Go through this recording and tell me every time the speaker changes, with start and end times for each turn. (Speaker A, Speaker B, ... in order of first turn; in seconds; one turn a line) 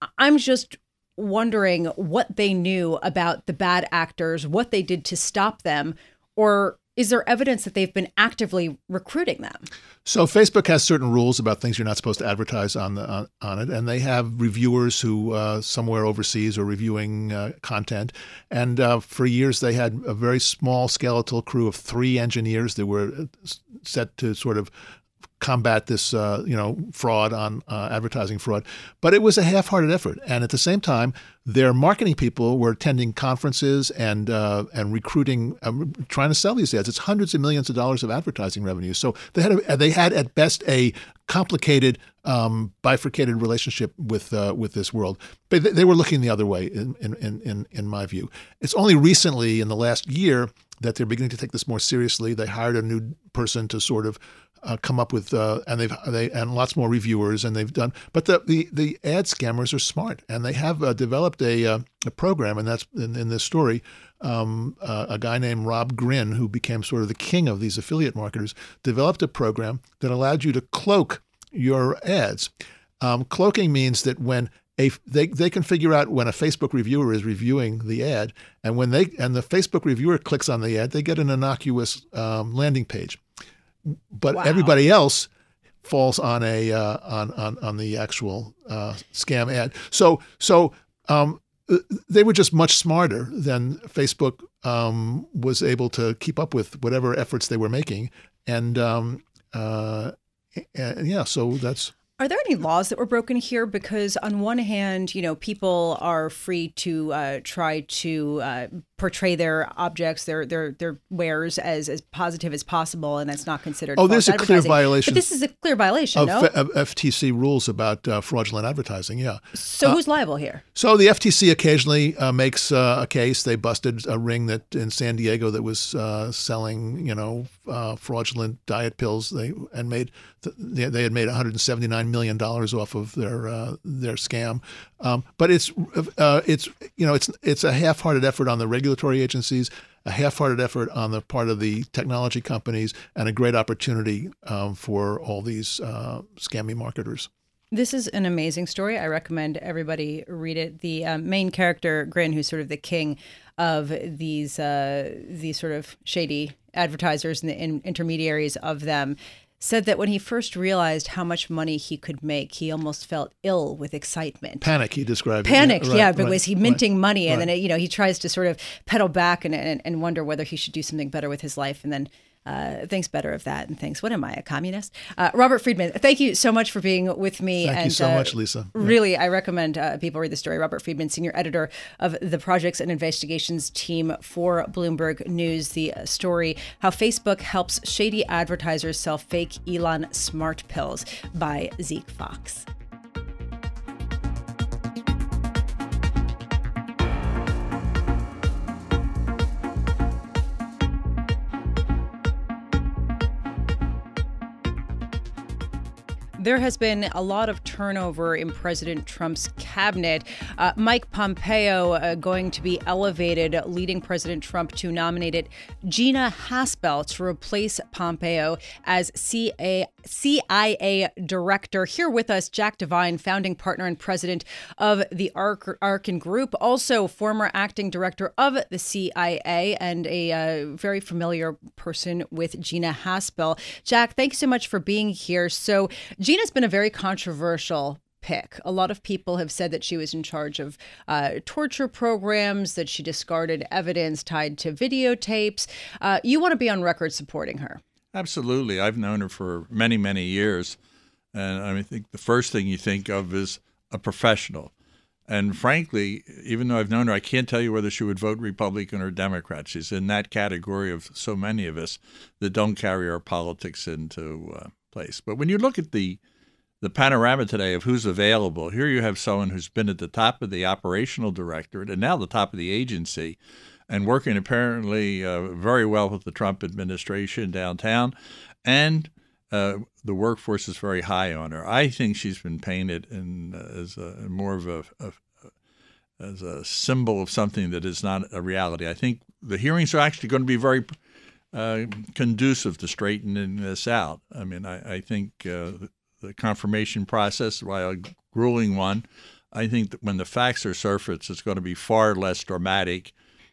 Speaker A: 0.2-9.7
Speaker B: 10.1-24.7
Speaker B: 25.4-83.2
Speaker B: 83.9-85.3
Speaker A: 84.4-84.7
Speaker B: 85.8-101.9
Speaker A: 102.2-116.5
Speaker B: 114.0-115.2
Speaker B: 116.1-120.0
Speaker A: 119.5-120.6
Speaker B: 120.8-147.3
Speaker A: 147.7-164.7
Speaker B: 164.6-167.5
Speaker A: 165.4-192.7
Speaker B: 177.6-179.0
Speaker A: 206.4-247.8
Speaker C: 248.1-250.8
Speaker C: 251.3-254.7
Speaker C: 255.3-266.2
Speaker C: 266.8-273.4
Speaker C: 273.9-285.2
Speaker C: 286.2-290.9
Speaker C: 291.5-303.1